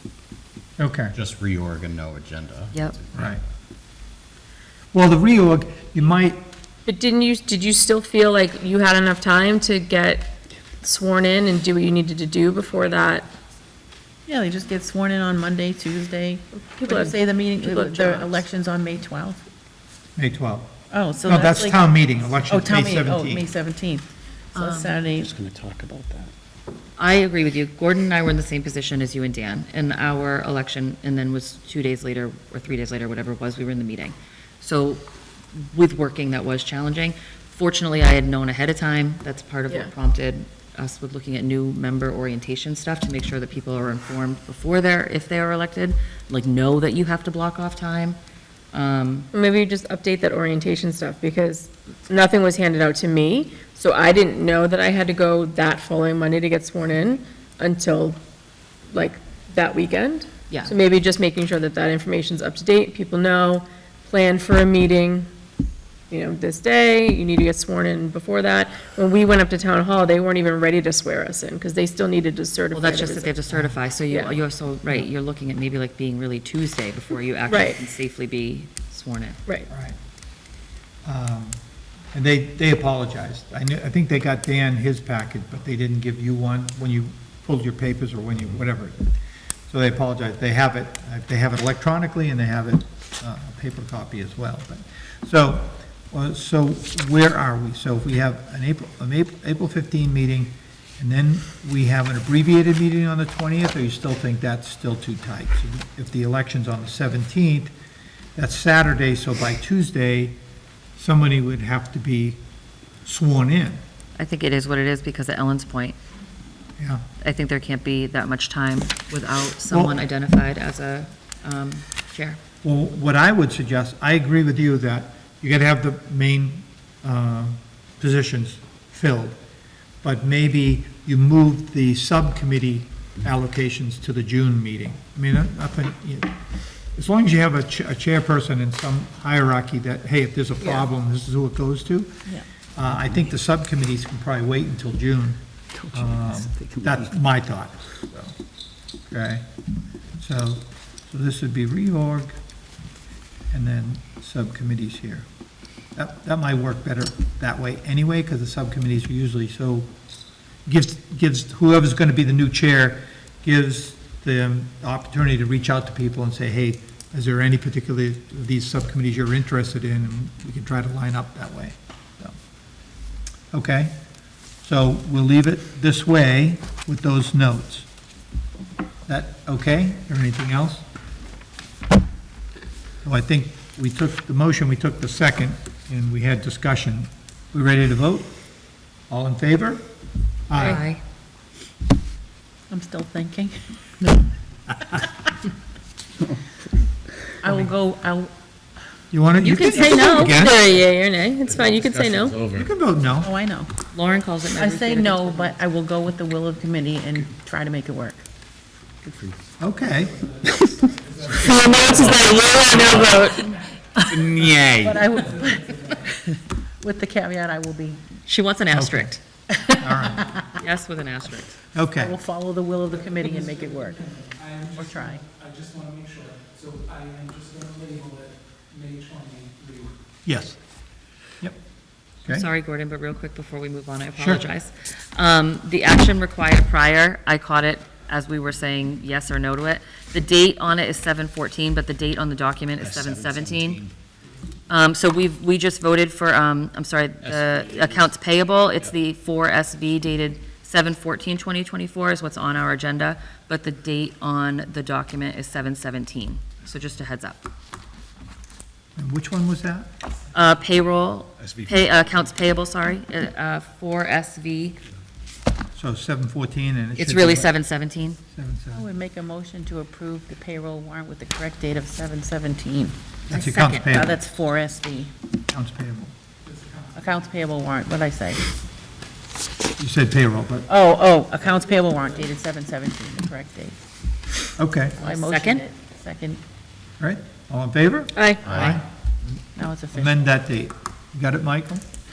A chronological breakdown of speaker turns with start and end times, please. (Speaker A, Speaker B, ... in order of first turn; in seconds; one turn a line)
Speaker A: 0.8-1.1
Speaker B: 1.1-3.3
Speaker A: 3.1-3.4
Speaker A: 4.9-6.4
Speaker C: 6.9-13.3
Speaker D: 14.3-19.4
Speaker C: 16.8-18.4
Speaker A: 20.2-20.7
Speaker D: 20.9-21.9
Speaker A: 21.2-23.4
Speaker D: 22.5-25.4
Speaker E: 24.6-25.0
Speaker F: 25.2-26.3
Speaker E: 27.0-48.2
Speaker E: 48.7-49.3
Speaker C: 49.3-58.2
Speaker C: 58.9-65.3
Speaker C: 66.1-73.3
Speaker E: 72.7-79.4
Speaker C: 74.1-74.4
Speaker C: 77.5-77.8
Speaker A: 79.7-80.0
Speaker A: 81.0-81.6
Speaker A: 82.1-89.1
Speaker A: 89.7-107.7
Speaker A: 108.4-110.4
Speaker A: 111.0-112.4
Speaker A: 113.0-113.8
Speaker E: 114.2-116.0
Speaker A: 116.8-117.0
Speaker E: 117.2-122.4
Speaker A: 119.7-120.0
Speaker A: 122.6-129.4
Speaker A: 130.0-136.3
Speaker A: 136.9-142.2
Speaker A: 142.8-148.3
Speaker F: 145.9-147.0
Speaker A: 149.1-149.4
Speaker A: 150.2-152.4
Speaker A: 153.5-155.3
Speaker A: 156.0-159.9
Speaker A: 160.7-172.4
Speaker A: 173.5-174.0
Speaker A: 174.6-177.9
Speaker A: 179.1-180.8
Speaker A: 183.0-188.3
Speaker A: 189.1-189.8
Speaker A: 190.5-190.8
Speaker E: 190.6-191.0
Speaker D: 192.7-193.5
Speaker D: 197.4-198.3
Speaker A: 199.1-200.6
Speaker C: 199.4-202.4
Speaker F: 202.1-202.6
Speaker A: 202.5-203.3
Speaker D: 203.2-203.7
Speaker E: 203.9-205.6
Speaker D: 204.5-208.2
Speaker A: 209.6-210.1
Speaker G: 209.8-212.5
Speaker E: 211.8-214.2
Speaker C: 212.4-213.1
Speaker A: 214.1-215.0
Speaker D: 214.8-218.0
Speaker G: 215.1-216.1
Speaker E: 218.3-219.2
Speaker A: 218.7-219.2
Speaker D: 219.5-220.5
Speaker A: 219.8-220.4
Speaker E: 220.6-221.6
Speaker A: 221.7-222.1
Speaker D: 222.0-224.0
Speaker G: 223.0-229.9
Speaker D: 224.7-225.2
Speaker A: 230.2-230.6
Speaker E: 232.3-243.8
Speaker A: 234.2-234.4
Speaker B: 242.8-243.9
Speaker E: 244.7-257.5
Speaker B: 247.2-248.1
Speaker A: 259.0-259.9
Speaker E: 260.3-264.8
Speaker A: 265.8-267.5
Speaker E: 267.0-268.2
Speaker A: 268.3-268.8
Speaker D: 268.7-272.9
Speaker E: 273.3-273.9
Speaker A: 273.3-274.2
Speaker D: 273.9-275.1
Speaker A: 275.5-276.1
Speaker G: 276.5-277.3
Speaker D: 276.9-278.5
Speaker A: 279.8-280.7
Speaker D: 280.7-283.8
Speaker A: 284.6-285.0
Speaker E: 285.0-285.6
Speaker D: 285.0-286.4
Speaker A: 287.0-288.8
Speaker C: 288.2-288.5
Speaker E: 288.5-288.8
Speaker D: 289.6-290.2
Speaker A: 289.9-291.8